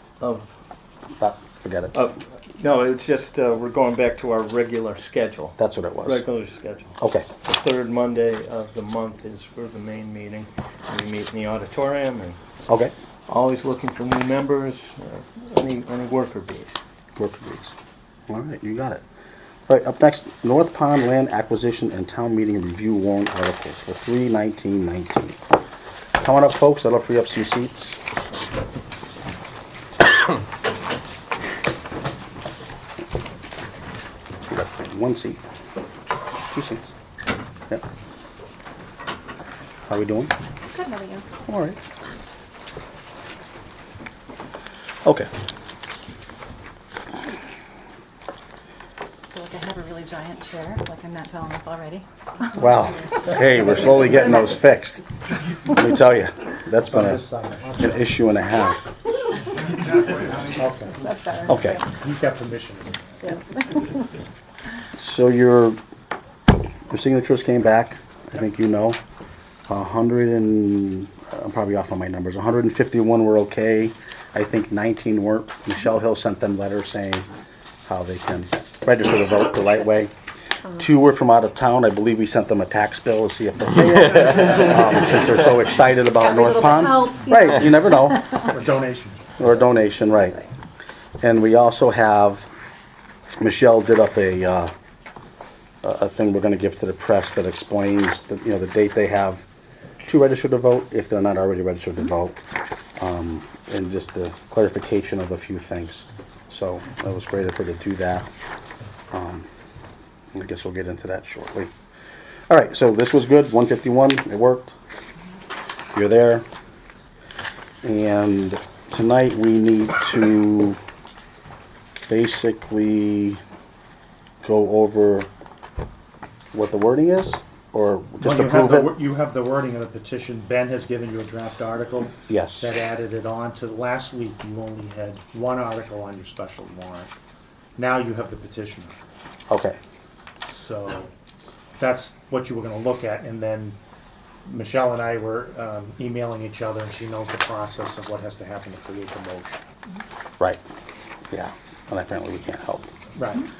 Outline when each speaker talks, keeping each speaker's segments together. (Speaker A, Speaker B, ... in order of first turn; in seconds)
Speaker A: 0.2-0.5, 1.9-12.4, 13.3-16.8
Speaker B: 1.2-2.0, 5.6-6.2, 7.0-7.3, 17.1-17.7, 18.3-19.0, 19.7-25.4, 26.2-28.0, 34.5-35.4, 36.5-36.9, 39.9-40.3, 41.5-41.8, 52.5-55.0, 55.6-57.2, 57.8-58.8, 61.5-61.8, 65.0-65.8, 66.9-69.0, 69.7-77.2, 77.8-80.1, 80.7-88.4, 89.4-90.4, 91.2-92.5, 93.4-94.7, 95.8-99.5, 100.0-102.4, 103.0-108.3, 109.1-109.5, 110.3-111.7, 112.5-114.7, 115.9-116.5, 117.8-120.8, 122.1-123.4, 124.4-125.3, 126.5-128.9, 132.3-132.7, 139.5-139.8, 151.3-152.9
Speaker C: 40.6-41.2, 49.3-54.2, 61.0-61.9, 63.2-64.1, 86.2-88.4
Speaker D: 56.8-58.1, 60.5-61.0, 61.9-63.4, 88.4-89.3, 128.2-137.1, 137.8-139.0, 140.5-141.1, 141.8-143.8, 144.4-149.6, 153.2-153.4